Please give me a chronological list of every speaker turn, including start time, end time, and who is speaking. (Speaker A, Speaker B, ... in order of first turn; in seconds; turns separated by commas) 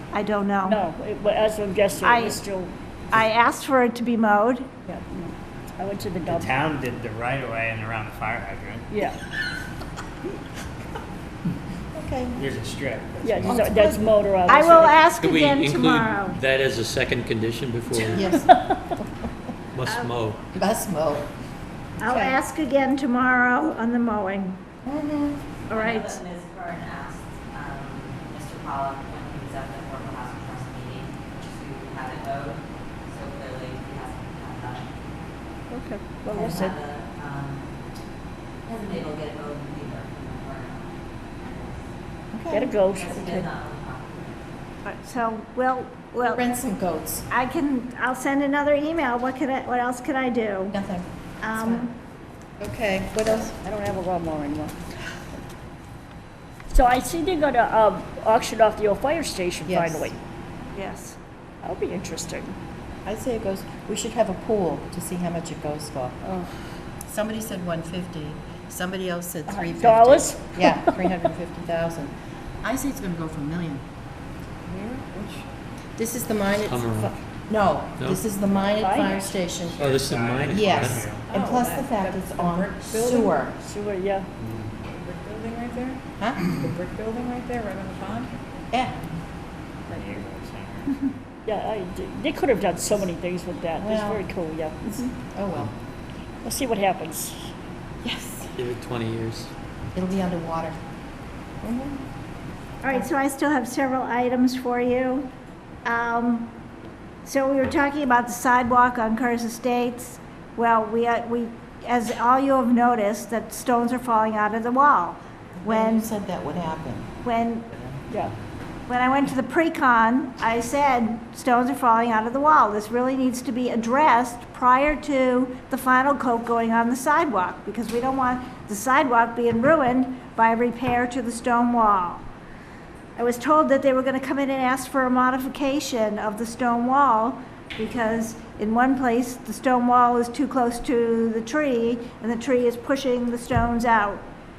Speaker A: 0.1-0.8, Speaker B: 0.7-2.7, Speaker A: 2.0-2.4, Speaker A: 3.1-4.7, Speaker B: 4.9-6.6, Speaker C: 6.3-8.8, Speaker B: 8.9-9.2, Speaker D: 11.9-12.5, Speaker C: 12.4-13.0, Speaker B: 13.2-15.0, Speaker D: 13.4-14.1, Speaker A: 14.5-16.4, Speaker E: 15.1-18.5, Speaker D: 18.1-19.0, Speaker E: 19.7-20.5, Speaker A: 19.9-20.1, Speaker D: 20.5-21.3, Speaker A: 22.0-24.6, Speaker D: 22.1-22.4, Speaker D: 24.8-25.4, Speaker A: 25.7-26.2, Speaker F: 25.7-35.1, Speaker B: 35.7-36.8, Speaker F: 36.3-37.7, Speaker F: 38.7-41.9, Speaker D: 42.3-42.7, Speaker B: 42.5-43.5, Speaker F: 42.9-44.5, Speaker A: 44.9-46.4, Speaker D: 46.2-47.3, Speaker A: 47.3-50.8, Speaker D: 50.7-51.9, Speaker A: 51.4-51.9, Speaker D: 52.6-53.6, Speaker B: 53.4-54.8, Speaker B: 56.7-60.2, Speaker D: 59.7-60.1, Speaker A: 60.7-61.2, Speaker B: 61.6-62.6, Speaker D: 63.0-66.2, Speaker B: 66.2-66.5, Speaker D: 67.0-73.8, Speaker B: 69.5-71.0, Speaker G: 74.7-75.5, Speaker D: 76.0-80.0, Speaker E: 76.6-77.3, Speaker E: 78.0-78.2, Speaker B: 78.8-79.4, Speaker E: 79.7-81.2, Speaker D: 80.5-83.5, Speaker G: 81.1-83.5, Speaker B: 83.6-84.3, Speaker G: 84.8-88.4, Speaker D: 86.2-86.6, Speaker D: 88.7-89.0, Speaker B: 89.9-90.2, Speaker C: 90.0-90.8, Speaker B: 91.5-95.2, Speaker D: 93.8-94.2, Speaker D: 95.3-95.7, Speaker B: 96.4-97.5, Speaker D: 98.0-98.5, Speaker E: 98.5-99.5, Speaker D: 100.0-100.8, Speaker D: 101.6-102.0, Speaker A: 102.8-105.3, Speaker A: 105.8-106.5, Speaker A: 107.2-116.1, Speaker D: 115.6-117.1, Speaker A: 117.2-117.7, Speaker B: 118.1-118.3, Speaker A: 118.9-132.2, Speaker A: 133.2-144.2